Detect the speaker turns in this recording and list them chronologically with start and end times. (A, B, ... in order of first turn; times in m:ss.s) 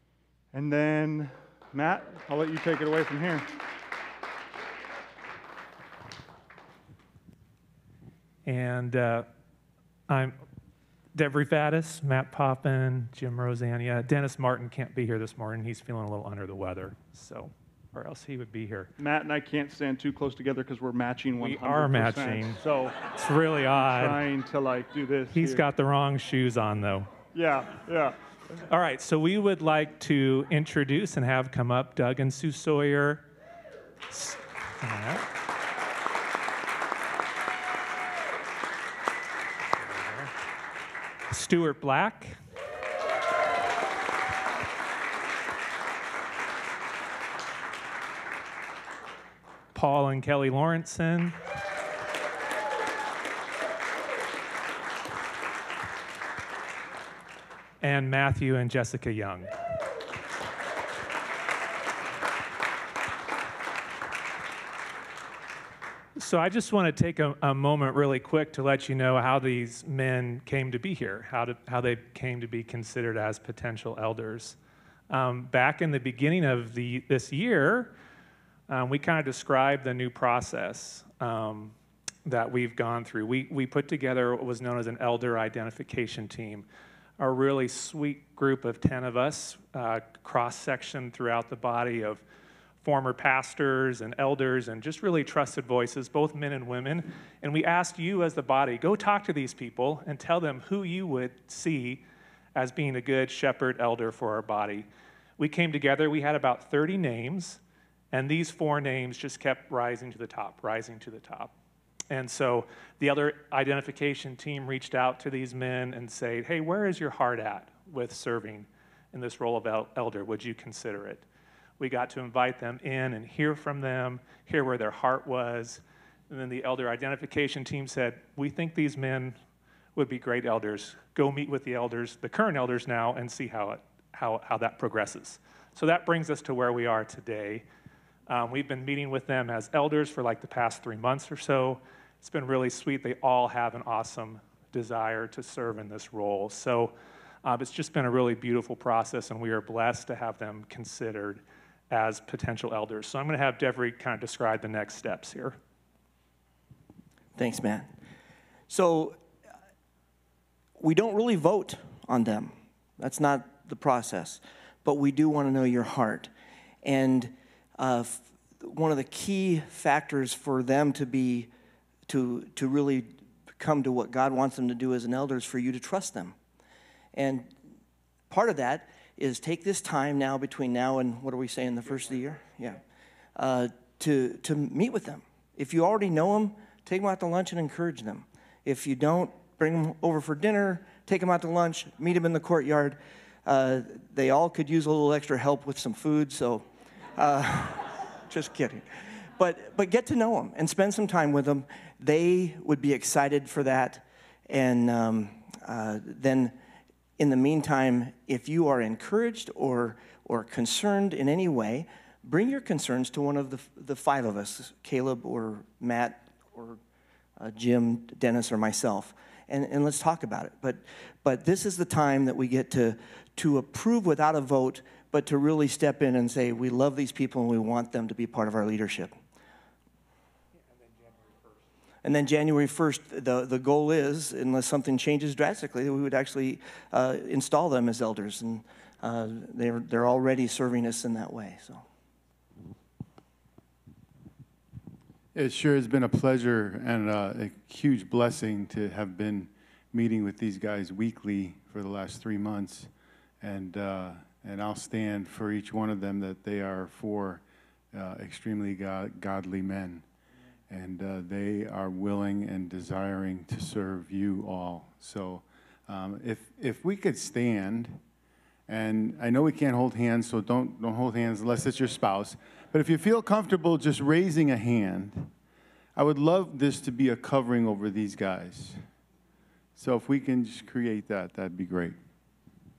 0:00.5-0:03.5 A
0:08.4-0:09.3 B
0:10.1-0:10.4 B
0:11.1-0:18.9 B
0:19.0-0:23.0 A
0:21.4-0:24.2 B
0:23.9-0:25.7 A
0:25.3-0:27.1 B
0:27.3-0:28.2 A
0:28.7-0:33.2 B
0:34.1-0:35.3 B
0:40.0-0:40.3 B
0:41.3-0:42.4 B
0:49.7-0:51.4 B
0:57.8-0:59.5 B
1:06.2-1:14.6 B
1:15.1-1:17.9 B
1:18.7-1:21.7 B
1:22.2-1:26.6 B
1:27.2-1:32.2 B
1:32.8-1:42.0 B
1:42.5-1:44.9 B
1:45.4-1:47.6 B
1:48.1-1:51.5 B
1:52.1-2:01.2 B
2:01.8-2:09.4 B
2:09.9-2:17.6 B
2:18.3-2:35.6 B
2:37.4-2:37.9 C
2:38.7-2:39.2 C
2:40.8-2:46.3 C
2:46.8-2:51.5 C
2:52.1-2:56.4 C
2:57.1-2:57.5 C
2:58.3-3:02.8 C
3:03.4-3:26.6 C
3:27.2-3:36.8 C
3:37.4-3:49.1 C
3:51.0-3:51.3 B
3:52.0-4:01.8 C
4:05.3-4:12.9 D
4:13.4-4:20.0 D
4:20.7-4:28.0 D
4:28.7-4:35.3 D
4:36.0-4:38.8 D
4:39.8-4:42.0 D